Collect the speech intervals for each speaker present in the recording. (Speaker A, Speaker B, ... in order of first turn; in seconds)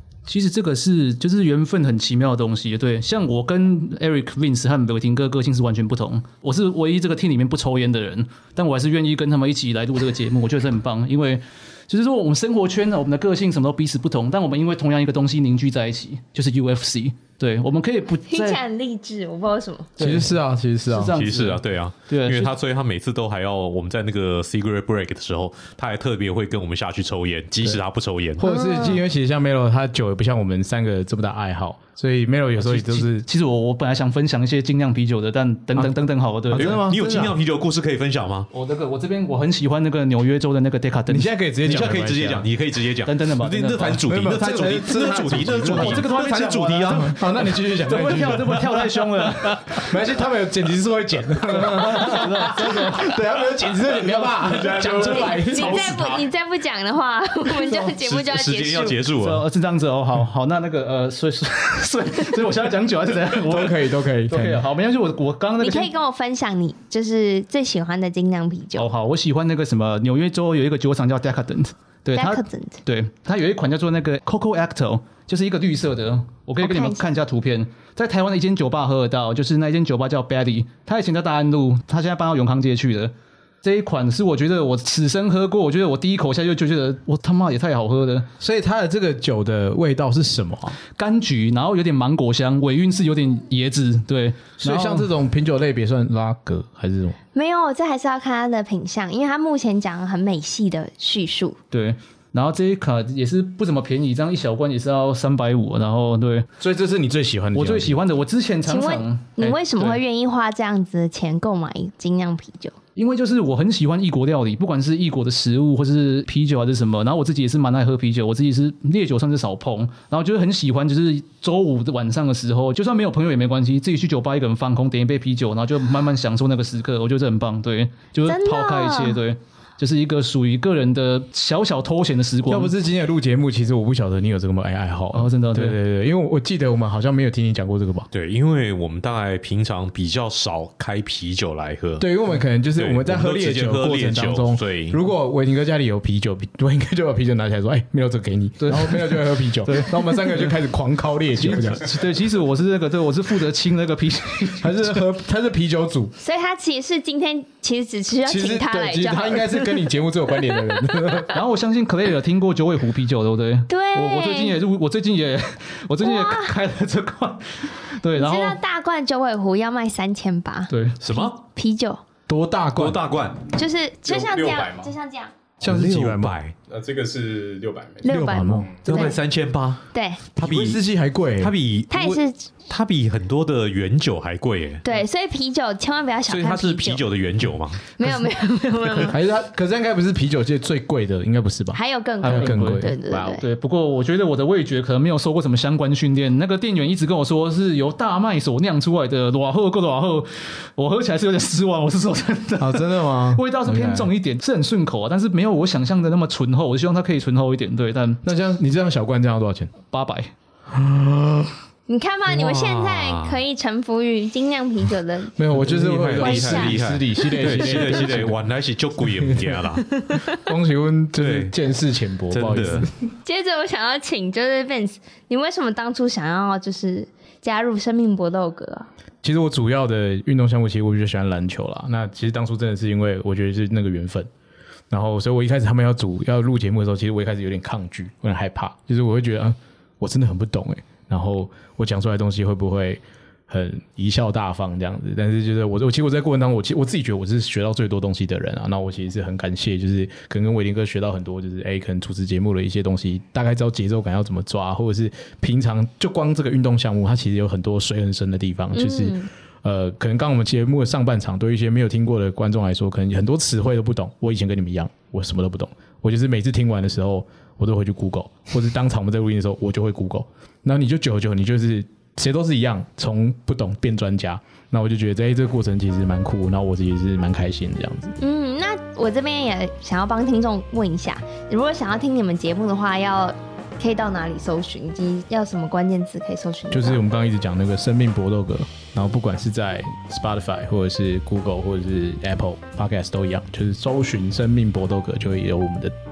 Speaker A: 0.3-18.6, 20.0-20.3, 20.9-22.5, 32.6-37.3, 38.5-41.3, 43.0-44.0, 45.6-49.9, 51.5-53.1, 57.5-57.9, 59.1-65.9, 68.7-88.3, 91.0-95.1, 101.7-106.5, 107.5-110.0, 113.0-132.7, 135.1-135.8, 148.6-150.6, 151.3-155.0, 161.3-168.6, 170.7-171.0, 192.2-208.2, 209.8-210.3
Speaker B: 18.2-19.9, 28.4-29.0, 55.1-59.0, 65.6-68.9, 72.1-72.8, 76.6-77.0, 97.3-101.6, 108.7-112.8, 128.2-129.2, 156.2-159.8, 163.7-164.6, 166.0-166.6, 168.1-172.0, 173.5-175.3, 178.0-179.2, 179.9-180.2, 181.9-182.4, 184.8-187.0, 187.9-189.2, 191.7-193.4, 211.9-215.4, 216.2-216.8, 220.0-220.3, 223.2-228.9, 258.7-259.3, 278.2-287.0
Speaker C: 20.0-21.1, 28.4-33.2, 36.5-37.3, 41.1-42.5, 44.1-46.1, 46.9-49.0, 49.8-56.0, 63.4-64.6, 88.4-90.8, 94.6-97.2, 106.6-108.0, 132.5-138.1, 142.0-151.9, 154.6-156.1, 158.2-161.3, 172.3-173.0, 175.6-176.3, 178.1-178.7, 180.4-181.5, 189.0-193.4, 202.6-204.1, 208.2-209.7, 210.7-211.5, 215.3-218.4, 219.1-219.6, 220.3-222.9, 229.2-234.3, 234.9-278.1, 286.7-295.9
Speaker D: 21.1-28.5, 36.5-38.5, 41.6-47.2, 58.0-59.4, 138.1-142.1, 142.8-145.0, 171.0-171.4, 172.8-173.4, 175.6-176.5, 178.8-180.8, 181.4-184.8, 186.3-187.9, 212.3-213.4, 215.8-219.9, 221.1-221.5, 222.3-222.9
Speaker E: 54.0-56.2, 174.0-174.9, 176.7-178.8